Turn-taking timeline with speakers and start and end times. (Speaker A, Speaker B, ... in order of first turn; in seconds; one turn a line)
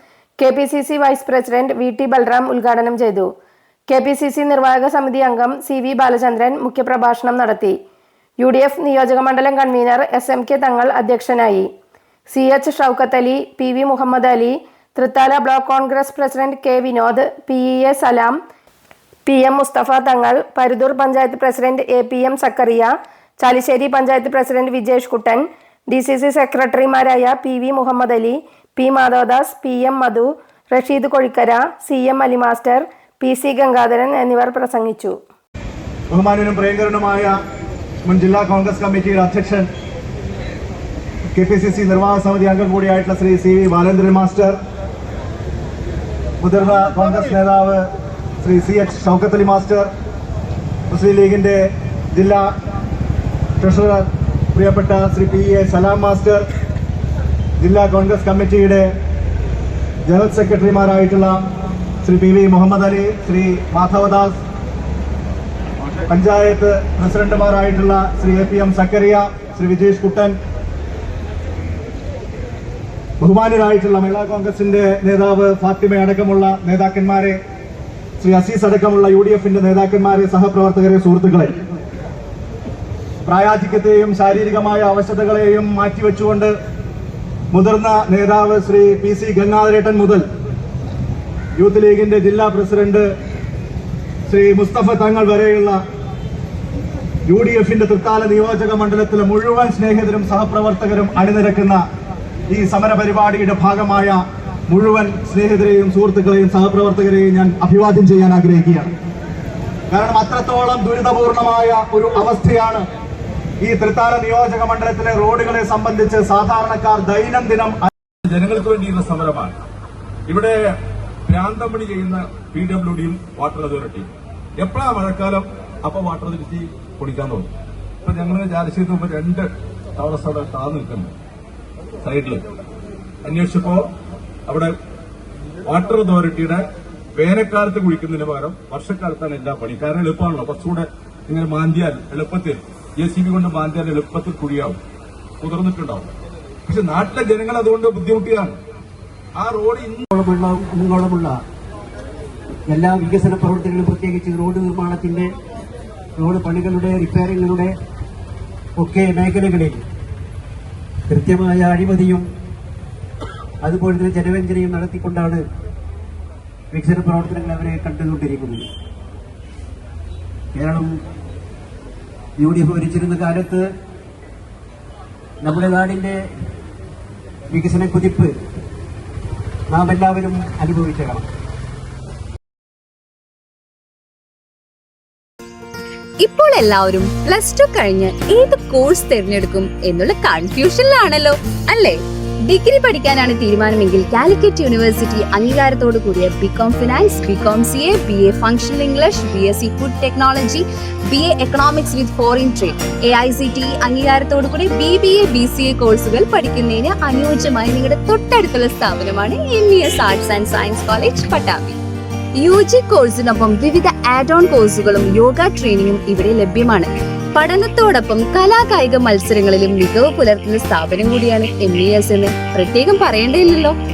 Speaker A: 0.4-3.3
Speaker A: 3.9-7.8
Speaker A: 8.4-11.7
Speaker A: 12.3-18.4
Speaker A: 19.3-35.2
Speaker B: 36.1-37.4
Speaker B: 38.0-39.7
Speaker B: 41.3-44.6
Speaker B: 46.4-47.9
Speaker B: 48.4-49.9
Speaker B: 50.9-51.6
Speaker B: 52.1-52.5
Speaker B: 53.6-56.4
Speaker B: 57.6-58.9
Speaker B: 60.1-61.4
Speaker B: 62.0-64.4
Speaker B: 66.1-70.3
Speaker B: 73.2-77.4
Speaker B: 78.2-81.6
Speaker B: 83.2-86.5
Speaker B: 87.5-90.2
Speaker B: 91.6-93.1
Speaker B: 94.3-95.8
Speaker B: 97.3-101.8
Speaker B: 102.5-108.9
Speaker B: 109.9-112.8
Speaker B: 113.6-117.9
Speaker C: 118.3-119.5
Speaker C: 120.3-120.6
Speaker C: 121.3-127.5
Speaker C: 128.0-131.1
Speaker C: 132.0-132.4
Speaker C: 133.2-133.9
Speaker C: 134.5-134.8
Speaker C: 135.7-136.7
Speaker C: 137.2-144.8
Speaker C: 145.4-146.1
Speaker C: 146.7-148.6
Speaker C: 149.4-151.3
Speaker D: 150.1-151.2
Speaker D: 152.7-155.3
Speaker D: 156.2-157.7
Speaker D: 158.8-159.8
Speaker C: 161.1-161.4
Speaker D: 161.1-162.2
Speaker D: 163.6-165.3
Speaker C: 163.7-164.1
Speaker D: 166.7-168.6
Speaker C: 170.6-170.9
Speaker D: 170.6-170.9
Speaker D: 172.4-173.6
Speaker C: 173.2-173.7
Speaker D: 175.4-176.2
Speaker D: 177.5-178.3
Speaker D: 179.7-181.2
Speaker C: 180.4-181.2
Speaker E: 186.2-211.8
Speaker E: 212.4-223.8